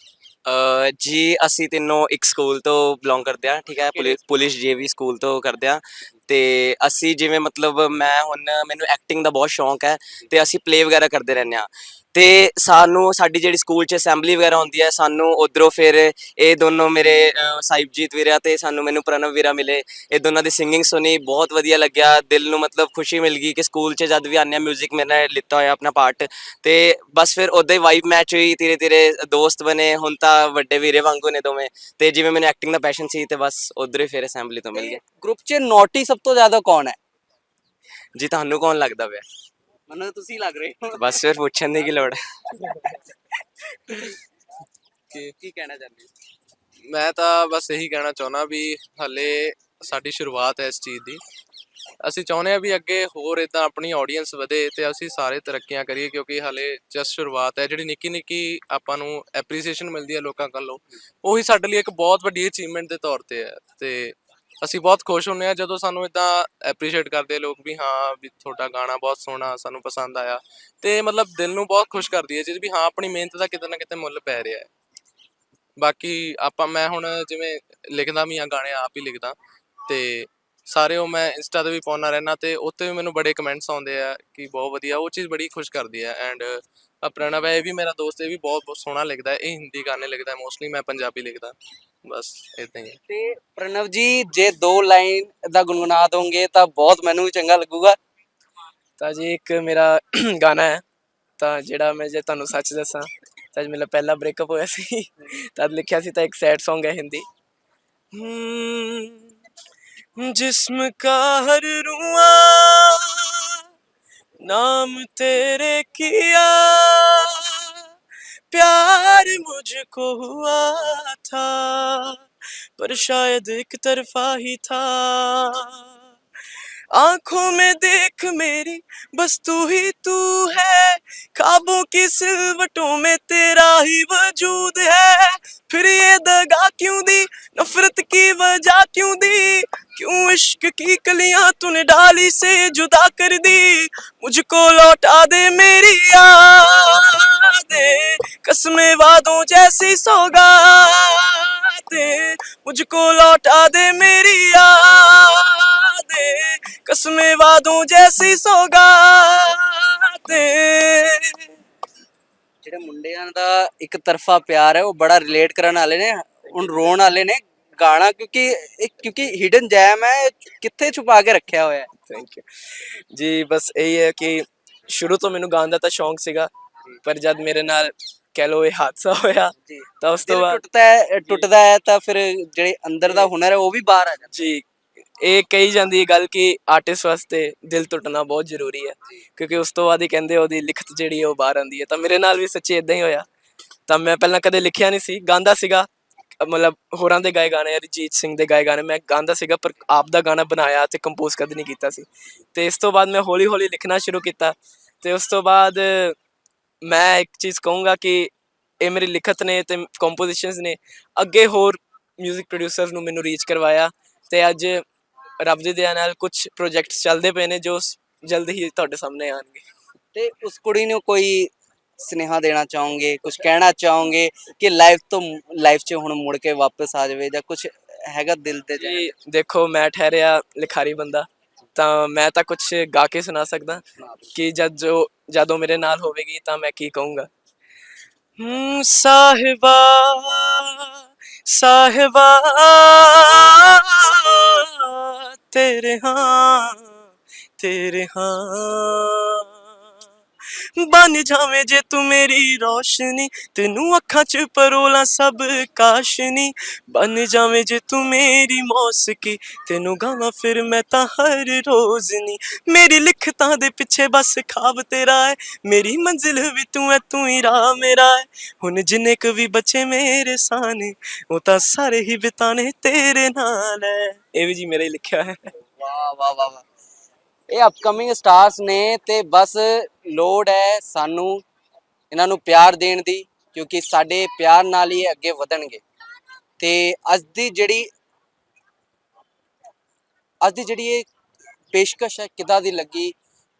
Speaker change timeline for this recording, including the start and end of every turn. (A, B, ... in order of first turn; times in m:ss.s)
0:00.4-0:35.0 A
0:03.9-0:04.2 B
0:34.7-0:37.0 B
0:38.2-0:39.2 A
0:39.9-0:41.0 B
0:41.0-0:42.7 A
0:43.9-0:44.2 B
0:45.4-0:46.1 B
0:46.9-0:51.2 C
0:52.0-1:14.7 C
1:15.8-1:19.4 C
1:19.9-1:31.5 C
1:32.1-1:33.0 C
1:33.1-1:38.0 B
1:39.0-1:40.8 D
1:41.4-1:47.2 D
1:48.2-1:49.2 E
1:48.2-1:49.2 D
1:50.2-1:53.6 E
1:51.0-1:52.4 D
1:54.4-1:57.9 E
1:54.5-1:55.2 D
1:58.5-2:02.2 E
2:02.8-2:06.0 E
2:06.9-2:41.4 E
2:24.8-2:25.1 D
2:33.2-2:33.8 D
2:37.2-2:38.0 D
2:38.6-2:40.8 D
2:42.6-2:51.9 B
2:52.1-2:52.4 D
2:53.2-2:54.4 D
2:55.0-2:56.5 D
2:57.1-2:57.9 D
2:57.2-2:57.7 E
2:58.4-2:59.5 D
2:59.6-3:04.3 B
3:05.3-3:08.9 D
3:08.9-3:09.8 E
3:09.8-3:13.2 D
3:14.0-3:15.9 D
3:16.4-3:26.2 D
3:26.8-3:28.3 D
3:28.8-3:34.8 D
3:35.4-3:39.6 D
3:40.1-3:49.1 B
3:48.8-3:53.8 D
3:54.0-3:54.3 B
3:54.4-3:57.3 D
3:58.4-4:06.9 E
3:59.8-4:00.7 D
4:07.6-4:09.5 E
4:10.8-4:35.3 E
4:35.8-4:36.6 B
4:37.5-4:41.4 B
4:42.1-4:45.8 B
4:46.6-4:47.9 B
4:50.4-4:51.0 B
4:51.7-4:53.1 B